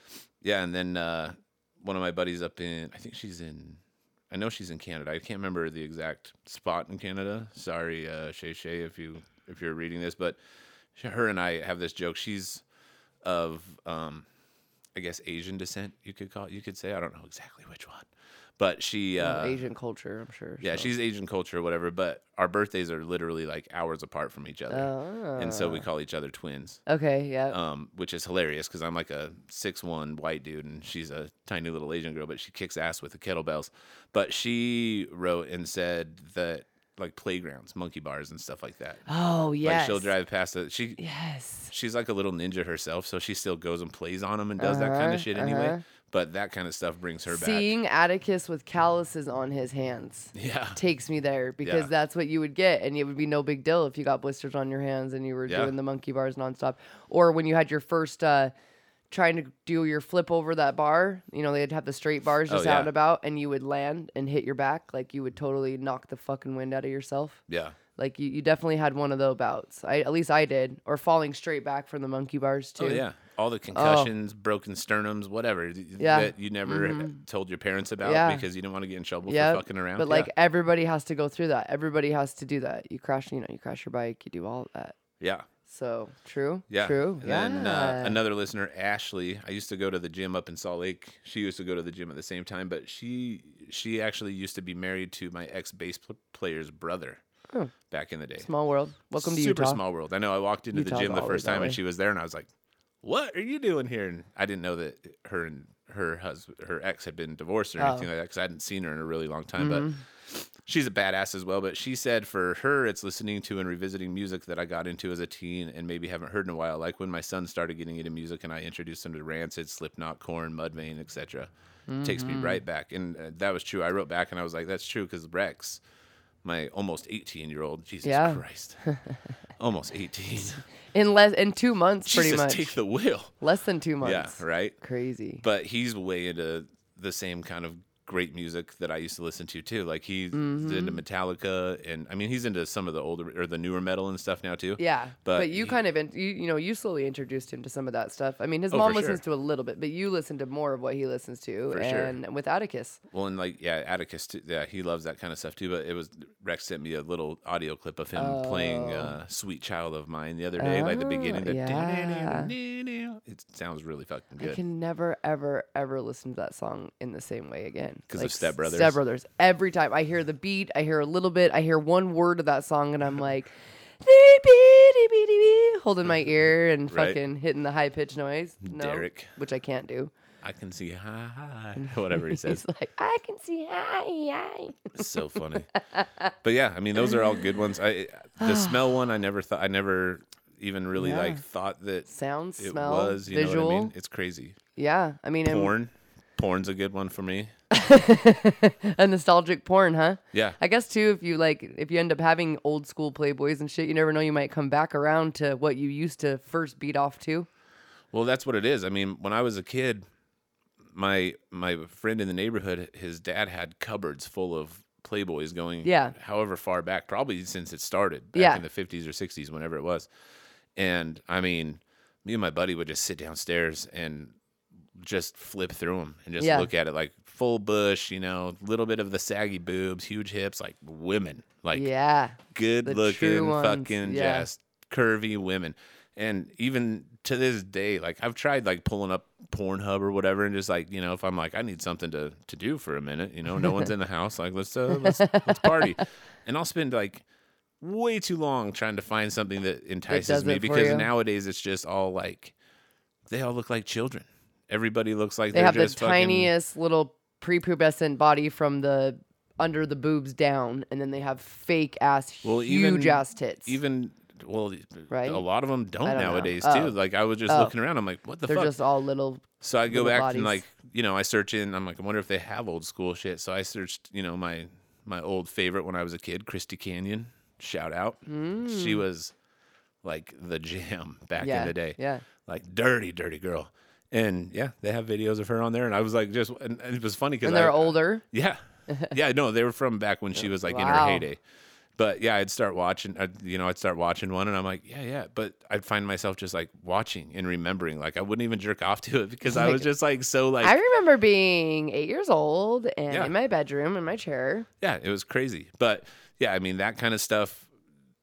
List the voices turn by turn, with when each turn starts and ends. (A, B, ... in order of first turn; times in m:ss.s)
0:00.4-0:10.4 A
0:11.0-0:12.6 A
0:13.2-0:14.3 A
0:14.9-0:19.6 A
0:19.2-0:20.9 B
0:20.6-0:26.8 A
0:24.7-0:25.9 B
0:26.9-0:27.6 B
0:27.5-0:39.0 A
0:39.1-0:40.1 B
0:39.6-0:41.0 A
0:41.0-0:41.7 B
0:41.7-0:47.7 A
0:44.6-0:45.8 B
0:47.3-0:58.5 B
0:50.4-0:50.8 A
0:51.6-0:51.9 A
0:55.5-0:55.8 A
0:59.1-1:07.4 B
1:02.5-1:02.9 A
1:07.5-1:07.8 A
1:08.0-1:13.0 B
1:12.8-1:20.3 A
1:13.7-1:14.1 B
1:16.0-1:17.2 B
1:18.0-1:18.4 B
1:19.3-1:25.0 B
1:25.2-1:25.5 A
1:25.7-1:28.2 B
1:26.7-1:37.2 A
1:37.9-1:38.5 A
1:38.4-1:39.8 B
1:39.2-1:42.5 A
1:40.7-1:41.8 B
1:43.0-2:01.5 A
1:47.8-1:48.1 B
1:49.6-1:50.0 B
2:01.9-2:02.6 B
2:02.0-2:05.8 A
2:06.4-2:08.8 A
2:08.0-2:09.1 B
2:09.6-2:10.6 A
2:10.9-2:12.8 B
2:12.1-2:13.3 A
2:13.4-2:15.4 B
2:14.0-2:14.8 A
2:15.4-2:25.8 A
2:20.3-2:21.0 B
2:24.8-2:33.0 B
2:28.7-2:29.2 A
2:31.7-2:32.2 A
2:33.1-2:44.6 A
2:38.2-2:39.2 B
2:40.6-2:42.5 B
2:44.4-3:00.1 B
2:48.1-2:49.0 A
2:56.9-2:57.2 A
2:58.6-2:59.3 A
3:00.4-3:02.6 A
3:01.8-3:05.1 B
3:05.0-3:05.7 A
3:05.7-3:06.3 B
3:06.4-3:14.6 A
3:08.4-3:08.8 B
3:11.0-3:11.4 B
3:12.1-3:13.9 B
3:14.8-3:15.7 B
3:15.4-3:17.5 A
3:17.7-3:27.5 B
3:20.3-3:20.6 A
3:28.1-3:30.1 A
3:30.9-3:40.1 A
3:35.8-3:36.2 B
3:38.3-3:38.6 B
3:40.8-3:44.4 A
3:45.0-3:51.9 A
3:46.4-3:46.7 B
3:51.7-3:54.5 B
3:52.5-4:07.2 A
4:04.9-4:06.0 B
4:07.8-4:12.5 A
4:10.1-4:11.1 B
4:13.3-4:16.5 A
4:15.5-4:23.8 B
4:22.4-4:28.7 A
4:25.1-4:25.4 B
4:26.0-4:27.0 B
4:27.5-4:27.7 B
4:28.5-4:30.6 B
4:29.6-4:39.3 A
4:38.3-4:39.0 B
4:40.0-4:51.4 A
4:41.4-4:42.2 B
4:47.4-4:48.2 B
4:48.9-4:49.1 B
4:50.4-4:51.3 B
4:52.0-5:00.8 A
4:59.4-4:59.8 B
5:00.6-5:04.7 B
5:04.8-5:07.7 A